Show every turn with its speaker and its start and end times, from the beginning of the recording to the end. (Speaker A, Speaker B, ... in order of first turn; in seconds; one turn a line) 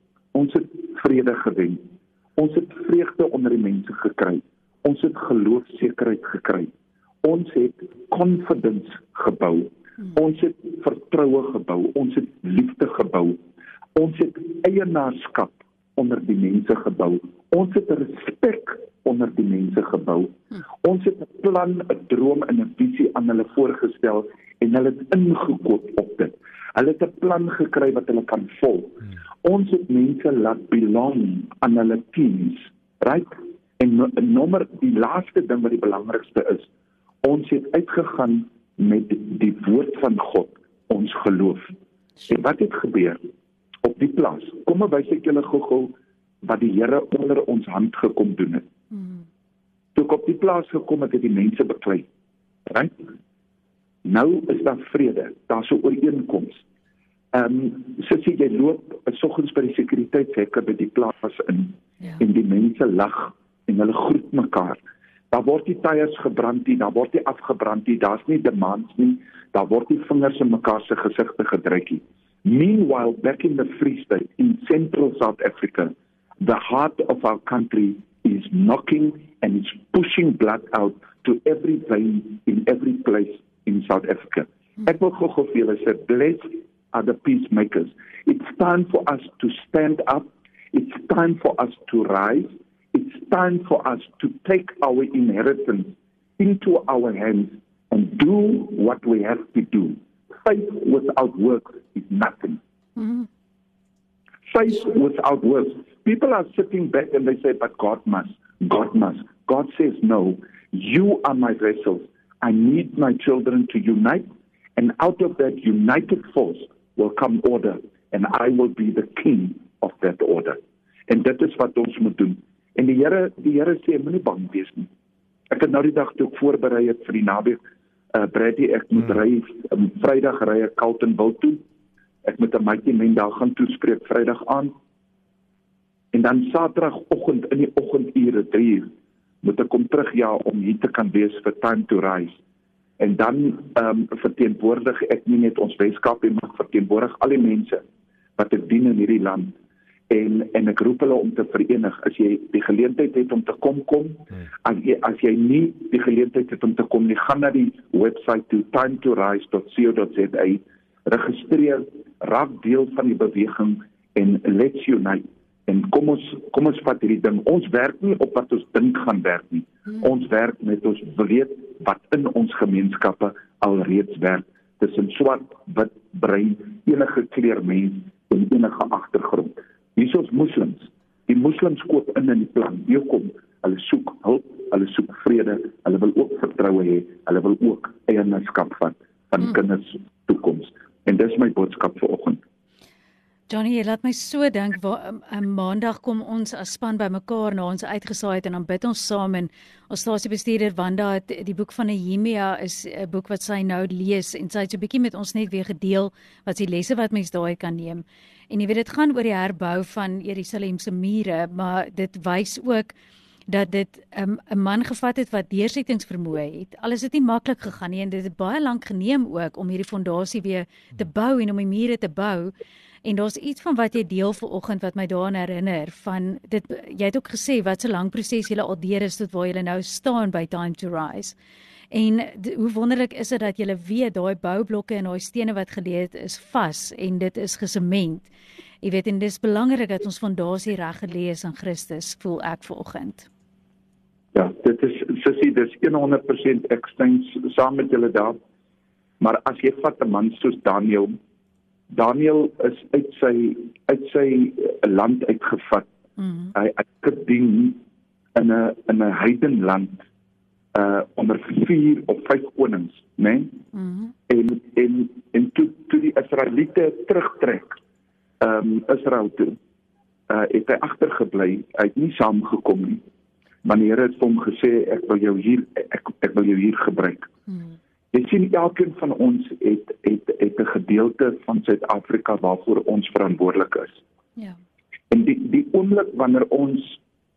Speaker A: 0.3-1.8
Speaker A: 2.4-6.7
Speaker A: 7.2-13.4
Speaker A: 13.9-20.3
Speaker A: 20.8-36.7
Speaker A: 37.2-41.7
Speaker A: 42.3-43.2
Speaker A: 43.8-45.9
Speaker A: 46.4-48.7
Speaker B: 48.9-49.2
Speaker A: 49.9-52.0
Speaker A: 52.7-53.1
Speaker A: 54.0-56.6
Speaker A: 57.3-102.6
Speaker B: 103.0-103.3
Speaker A: 104.5-114.2
Speaker A: 114.8-124.9
Speaker A: 125.5-127.6
Speaker A: 128.1-131.6
Speaker A: 132.2-134.7
Speaker A: 136.1-138.9
Speaker A: 139.4-142.3
Speaker A: 143.0-147.8
Speaker A: 148.4-149.5
Speaker A: 150.1-192.4
Speaker B: 193.5-212.9
Speaker B: 213.5-231.3
Speaker B: 231.9-238.3
Speaker B: 238.8-243.3
Speaker A: 244.3-248.3
Speaker A: 249.2-251.2
Speaker A: 251.9-255.9
Speaker B: 256.2-256.5
Speaker A: 256.5-257.8
Speaker A: 258.3-260.0
Speaker A: 260.7-263.5
Speaker B: 263.7-264.1
Speaker A: 264.3-267.7
Speaker A: 268.4-269.6
Speaker A: 270.3-273.0
Speaker A: 273.6-277.3
Speaker A: 278.1-284.0
Speaker A: 285.1-287.0